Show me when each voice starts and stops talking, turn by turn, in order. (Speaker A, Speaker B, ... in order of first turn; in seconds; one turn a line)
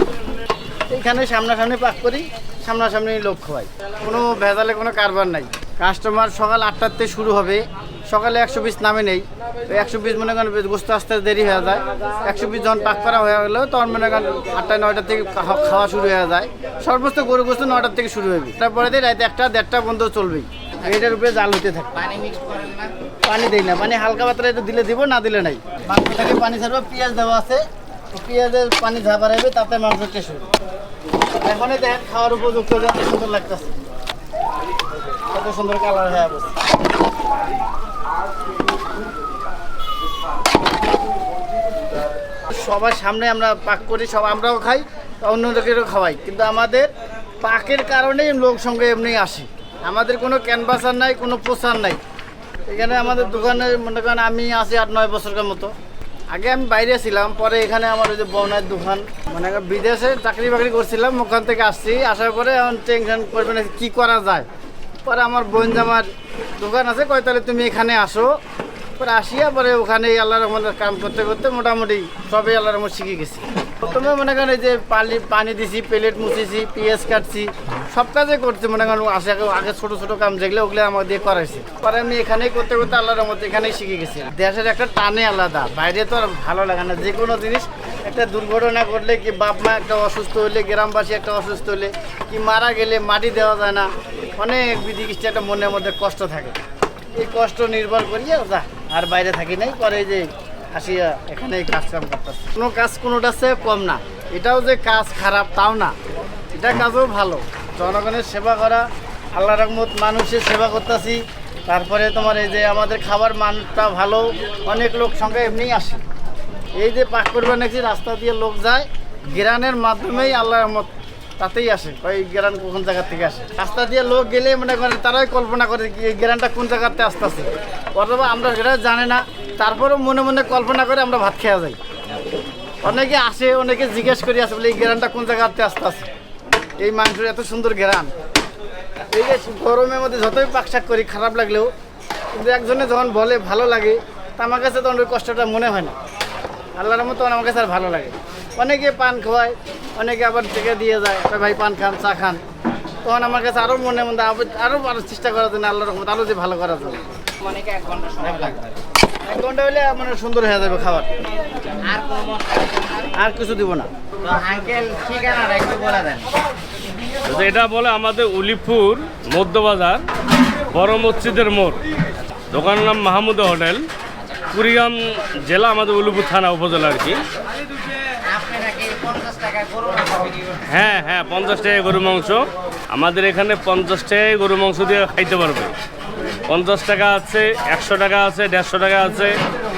Speaker A: 0.9-21.9
Speaker B: 20.8-21.2
Speaker B: 21.9-22.9
Speaker A: 23.2-30.5
Speaker A: 31.4-33.7
Speaker A: 35.3-36.6
Speaker A: 42.5-46.9
Speaker A: 47.4-52.0
Speaker A: 52.7-55.7
Speaker A: 56.3-64.5
Speaker A: 65.0-68.4
Speaker A: 69.0-96.5
Speaker A: 97.1-105.9
Speaker A: 106.5-116.0
Speaker A: 116.8-131.8
Speaker A: 132.8-136.1
Speaker A: 136.8-138.1
Speaker A: 139.1-141.7
Speaker A: 142.3-145.9
Speaker A: 146.8-152.4
Speaker A: 153.0-157.0
Speaker B: 157.4-158.8
Speaker A: 159.2-161.1
Speaker B: 161.9-163.1
Speaker A: 163.2-163.9
Speaker B: 164.2-166.3
Speaker C: 167.3-170.0
Speaker C: 170.7-171.8
Speaker C: 172.5-173.8
Speaker C: 174.5-177.2
Speaker B: 178.3-180.6
Speaker C: 180.7-185.7
Speaker C: 186.5-189.3